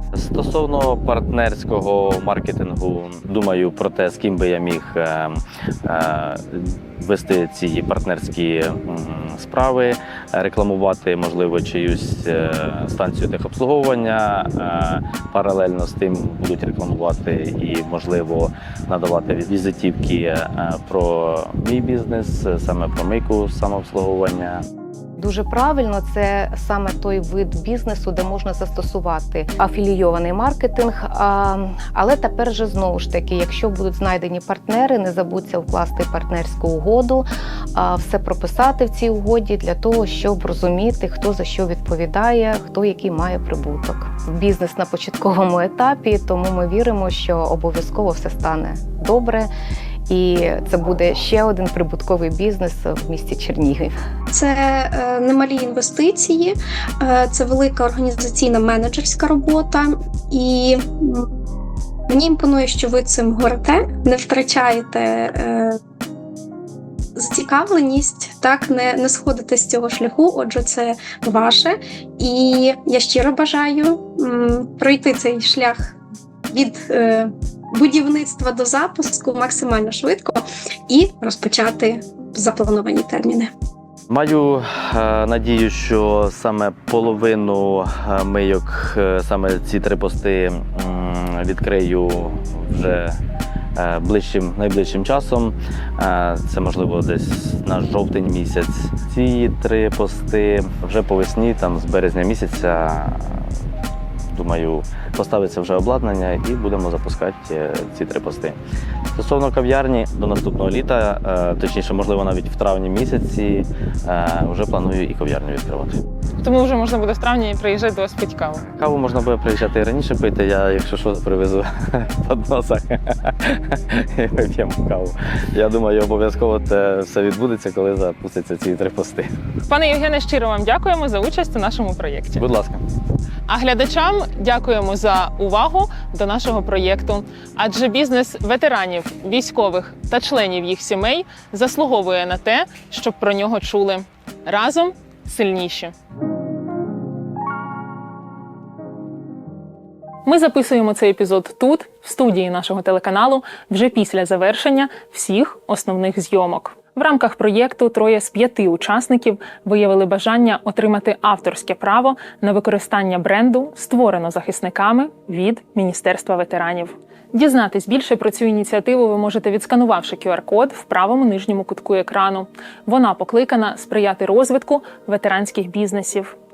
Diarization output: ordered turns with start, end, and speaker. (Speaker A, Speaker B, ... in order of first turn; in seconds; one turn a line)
Speaker A: 0.1-24.6
Speaker B: 25.2-49.5
Speaker B: 50.1-53.9
Speaker C: 54.3-61.2
Speaker C: 62.1-65.8
Speaker C: 67.1-76.0
Speaker C: 76.5-83.5
Speaker A: 84.1-93.2
Speaker A: 93.8-103.5
Speaker A: 104.3-108.6
Speaker A: 109.1-116.0
Speaker D: 116.4-118.6
Speaker A: 118.7-129.3
Speaker D: 129.7-132.4
Speaker A: 132.3-132.8
Speaker D: 133.5-145.9
Speaker D: 150.2-176.3